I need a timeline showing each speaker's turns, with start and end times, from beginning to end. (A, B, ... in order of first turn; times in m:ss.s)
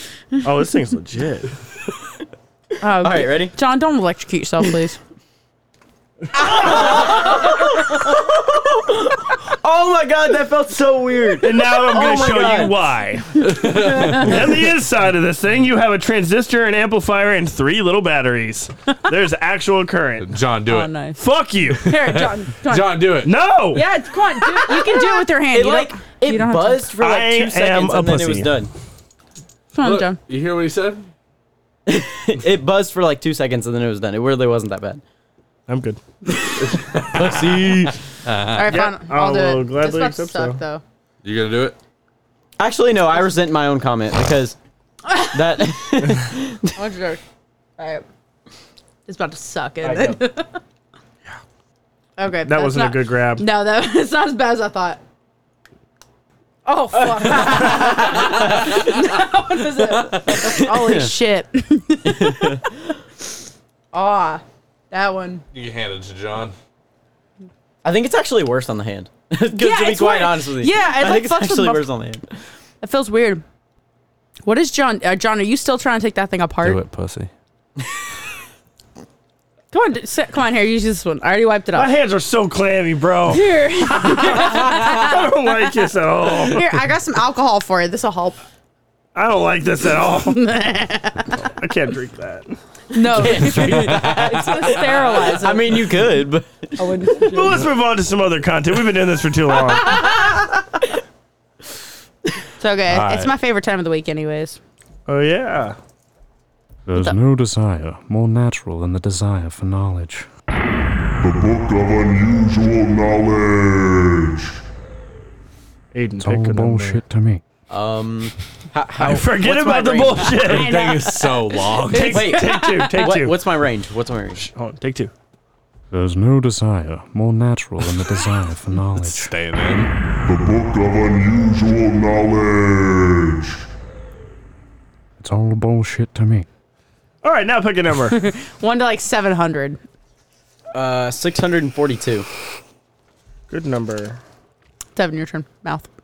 0:00.4-0:01.5 A
0:02.8-0:05.0 B
0:03.0-0:03.5 C
0:06.4-0:12.9 C
0:11.4-0:13.5 A
0:13.4-0:14.3 D
0:14.0-0:20.4 A
0:20.2-0:20.9 D
0:20.7-0:21.2 B
0:21.2-0:22.0 A
0:21.8-0:23.0 B
0:22.0-0:23.4 D
0:23.2-0:23.8 A
0:23.7-0:26.9 B
0:24.6-0:28.7 C
0:27.0-0:28.7 A
0:29.7-0:30.2 B
0:29.8-0:31.1 D
0:31.9-0:35.0 C
0:35.7-0:36.0 A
0:36.6-0:38.8 D
0:37.0-0:38.0 C
0:38.5-0:40.8 B
0:38.7-0:40.6 A
0:41.2-0:41.8 D
0:42.6-0:44.6 C
0:45.1-0:45.4 B
0:45.2-0:46.8 C
0:46.8-0:47.2 B
0:47.8-0:48.0 B
0:49.1-0:50.6 B
0:49.8-0:50.2 C
0:52.2-0:55.0 B
0:52.4-0:53.5 A
0:56.6-1:02.7 B
0:57.0-0:58.9 C
0:59.8-1:01.1 C
1:02.1-1:02.6 C
1:03.9-1:05.4 B
1:05.5-1:06.6 D
1:07.8-1:12.2 C
1:09.5-1:11.8 B
1:12.8-1:13.4 B
1:14.4-1:16.8 B
1:16.6-1:17.3 D
1:19.7-1:21.9 B
1:21.7-1:26.8 A
1:23.3-1:25.2 B
1:26.5-1:28.4 B
1:29.2-1:30.4 A
1:30.3-1:31.4 B
1:31.4-1:32.6 A
1:32.9-1:35.8 B
1:33.0-1:37.2 C
1:33.4-1:34.6 D
1:36.8-1:37.6 B
1:37.3-1:40.0 A
1:39.8-1:40.7 C
1:42.6-1:44.6 B
1:42.9-1:43.3 D
1:45.1-1:45.8 A
1:46.9-1:50.3 E
1:51.2-1:54.6 F
1:55.9-1:57.0 A
1:56.2-1:57.4 E
1:57.7-2:00.6 C
1:59.0-2:00.7 A
2:00.4-2:02.3 D
2:00.5-2:03.1 B
2:01.9-2:03.4 A
2:02.1-2:04.4 C
2:04.4-2:05.1 A
2:05.9-2:09.3 E
2:09.0-2:09.9 D
2:10.2-2:13.6 F
2:15.2-2:16.5 E
2:17.2-2:18.2 A
2:18.1-2:19.8 B
2:20.7-2:22.3 C
2:23.5-2:24.2 A
2:25.0-2:25.9 B